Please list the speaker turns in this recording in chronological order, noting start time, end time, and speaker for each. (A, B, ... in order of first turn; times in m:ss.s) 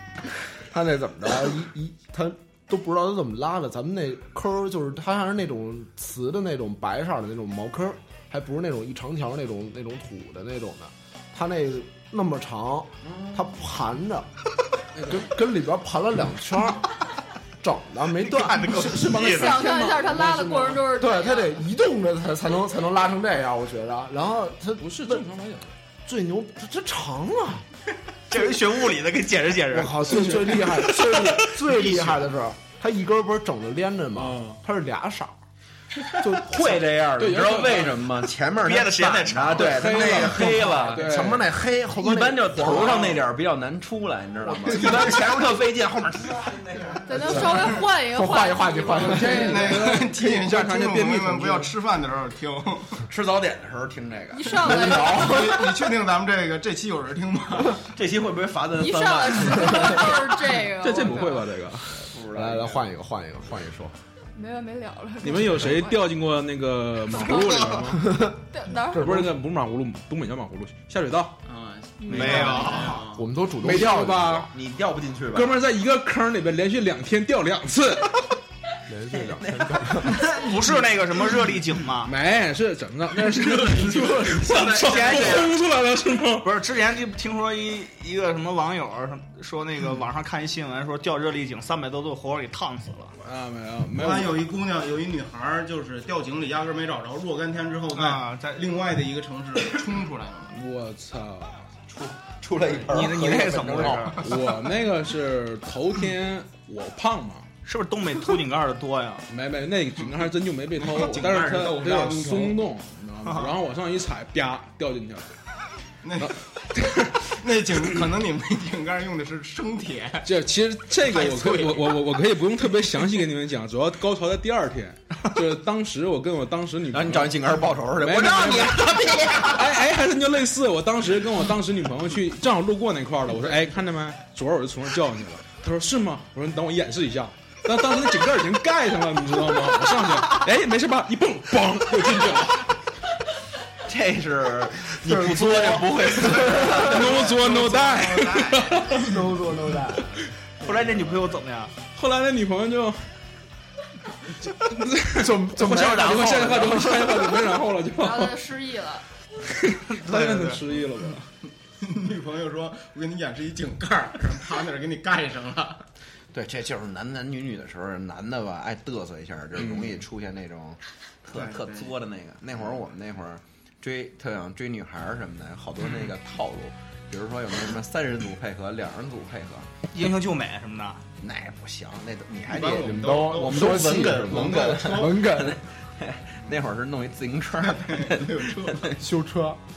0:00.6-0:14.3 A
0:14.9-0:15.3 B
0:15.0-0:16.9 A
0:17.6-0:19.4 A
0:18.2-0:19.6 C
0:18.8-0:20.9 B
0:19.1-0:21.5 D
0:20.9-0:25.2 A
0:24.8-0:25.7 B
0:26.0-0:27.6 A
0:28.3-0:32.1 C
0:29.7-0:35.4 A
0:30.1-0:30.8 B
0:34.1-0:34.6 B
0:36.2-0:36.7 A
0:36.4-0:41.4 E
0:37.1-0:38.0 B
0:38.6-0:40.0 C
0:39.5-0:41.5 B
0:39.9-0:43.1 A
0:42.0-0:47.7 E
0:42.7-0:43.2 C
0:44.6-0:45.2 A
0:47.0-0:49.5 D
0:47.2-0:49.7 A
0:49.0-0:51.7 B
0:49.3-0:53.0 F
0:53.1-0:54.9 E
0:54.3-0:55.4 D
0:54.6-0:55.7 A
0:55.0-0:57.8 F
0:57.9-1:00.2 E
0:58.8-1:01.5 D
1:00.6-1:01.9 B
1:01.9-1:02.8 E
1:02.3-1:03.9 A
1:04.3-1:06.0 D
1:05.2-1:08.1 B
1:07.2-1:07.6 D
1:08.0-1:08.4 A
1:08.5-1:09.2 D
1:08.9-1:11.3 B
1:09.0-1:09.3 A
1:11.4-1:13.2 F
1:12.0-1:12.6 D
1:12.1-1:13.0 C
1:12.2-1:12.5 E
1:13.1-1:14.5 A
1:13.6-1:14.5 B
1:14.5-1:15.6 E
1:15.3-1:18.2 B
1:18.9-1:20.2 A
1:19.1-1:20.2 E
1:20.0-1:22.1 C
1:22.0-1:26.5 B
1:23.2-1:25.6 F
1:24.7-1:25.5 C
1:26.4-1:33.1 C
1:33.2-1:34.4 B
1:33.9-1:40.6 F
1:37.9-1:38.7 C
1:40.5-1:41.6 B
1:41.9-1:44.2 E
1:42.8-1:44.3 C
1:44.1-1:47.5 B
1:47.6-1:49.2 C
1:49.3-1:55.3 B
1:50.8-1:52.6 F
1:53.2-1:53.5 C
1:56.0-1:56.3 F
1:56.2-1:57.4 B
1:57.3-2:00.3 F
2:00.2-2:22.7 B
2:01.0-2:02.0 F
2:06.9-2:09.7 E
2:23.8-2:27.3 E
2:25.0-2:27.0 A
2:26.6-2:29.2 B
2:27.1-2:28.9 F
2:29.0-2:30.1 A
2:30.6-2:31.7 C
2:31.9-2:33.1 B
2:34.5-2:38.4 B
2:35.1-2:37.5 A
2:38.0-2:39.0 D
2:39.4-2:41.3 B
2:39.9-2:40.6 C
2:41.8-2:45.8 F
2:46.3-2:59.7 E
2:51.3-2:51.9 F
2:59.9-3:01.0 C
3:01.2-3:09.0 E
3:02.5-3:05.2 F
3:02.9-3:05.6 A
3:07.6-3:08.9 F
3:09.0-3:09.6 A